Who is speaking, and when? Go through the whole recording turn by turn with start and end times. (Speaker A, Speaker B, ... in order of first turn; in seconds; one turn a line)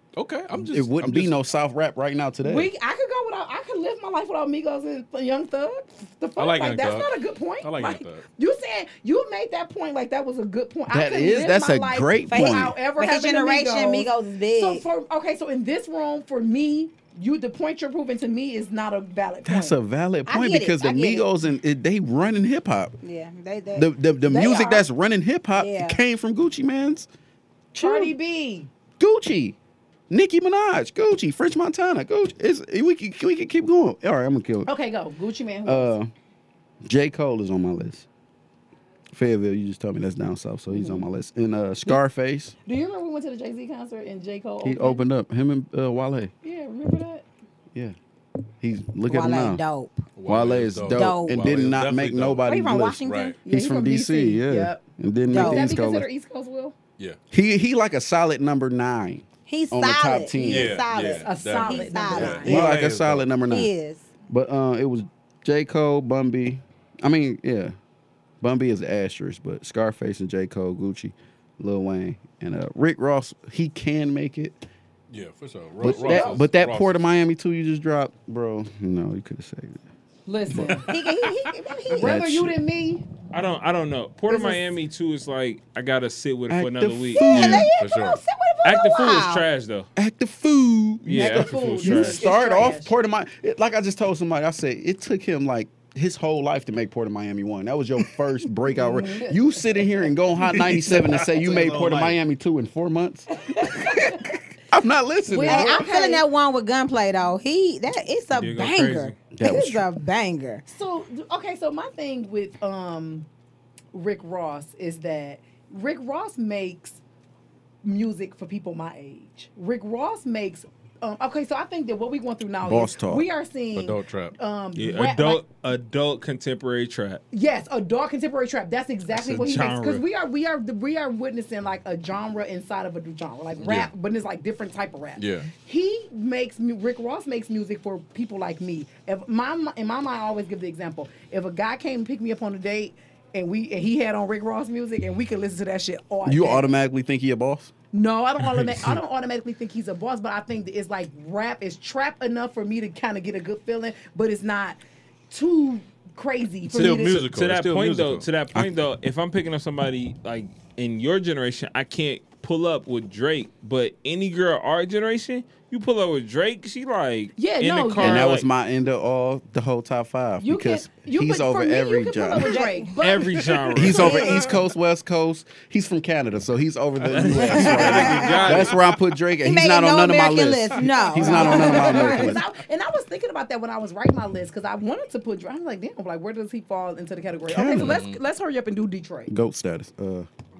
Speaker A: 0.1-1.4
Speaker B: 0.5-2.7
Speaker C: 2.4-19.8
Speaker A: 6.4-8.2
Speaker B: 10.9-12.7
Speaker D: 12.3-14.8
Speaker B: 19.4-22.9
Speaker D: 20.3-21.2
Speaker D: 23.0-23.9
Speaker B: 23.7-27.1
Speaker C: 24.2-24.9
Speaker D: 25.6-26.0
Speaker B: 27.7-28.1
Speaker C: 27.8-28.7
Speaker B: 29.0-29.6
Speaker B: 30.1-34.7
Speaker C: 34.6-35.9
Speaker B: 35.6-36.1
Speaker B: 36.8-38.0
Speaker B: 39.1-42.5
Speaker C: 42.6-45.0
Speaker B: 44.6-46.3
Speaker C: 46.4-47.2
Speaker B: 48.6-49.6
Speaker D: 49.1-50.0
Speaker A: 50.2-52.4
Speaker B: 50.2-56.1
Speaker D: 50.9-51.4
Speaker D: 52.5-53.4
Speaker A: 53.0-53.4
Speaker C: 53.5-56.7
Speaker D: 55.3-55.7
Speaker B: 57.3-60.8
Speaker D: 59.5-62.8
Speaker A: 60.4-63.3
Speaker C: 61.2-62.5
Speaker B: 62.2-63.7
Speaker D: 63.5-64.0
Speaker B: 64.3-67.7
Speaker B: 68.4-74.5
Speaker A: 75.1-76.9
Speaker B: 75.8-79.8
Speaker C: 75.9-76.4
Speaker C: 80.2-80.9
Speaker A: 80.9-81.5
Speaker D: 80.9-82.1
Speaker B: 81.9-82.6
Speaker C: 82.0-83.0
Speaker E: 83.3-87.6
Speaker C: 84.3-84.6
Speaker B: 86.5-87.7
Speaker D: 87.1-89.4
Speaker A: 87.3-88.2
Speaker E: 88.6-89.9
Speaker B: 90.0-104.2
Speaker E: 91.1-92.3
Speaker C: 91.1-92.9
Speaker C: 98.7-100.0
Speaker E: 100.4-102.2
Speaker C: 103.4-104.2
Speaker B: 104.7-105.8
Speaker C: 105.3-106.2
Speaker D: 105.4-110.6
Speaker E: 108.3-109.2
Speaker B: 109.3-109.9
Speaker C: 110.7-113.3
Speaker C: 113.9-117.0
Speaker C: 117.8-125.4
Speaker B: 122.6-123.2
Speaker A: 123.7-124.3
Speaker E: 124.8-127.2
Speaker C: 127.3-146.7
Speaker E: 129.1-130.0
Speaker A: 133.6-133.9
Speaker A: 135.2-135.5
Speaker B: 146.2-147.7
Speaker C: 147.9-154.8
Speaker E: 148.4-149.0
Speaker C: 155.3-157.3
Speaker A: 156.7-158.3
Speaker E: 156.7-168.4
Speaker C: 167.3-168.3
Speaker B: 168.0-172.6
Speaker C: 170.4-173.5
Speaker D: 172.5-172.9
Speaker E: 173.0-174.3
Speaker B: 173.7-182.4
Speaker D: 173.9-174.5
Speaker E: 177.1-178.8
Speaker D: 177.5-178.5
Speaker D: 179.4-182.4
Speaker C: 181.1-189.3
Speaker B: 187.5-188.0
Speaker A: 187.8-188.2
Speaker B: 189.3-190.3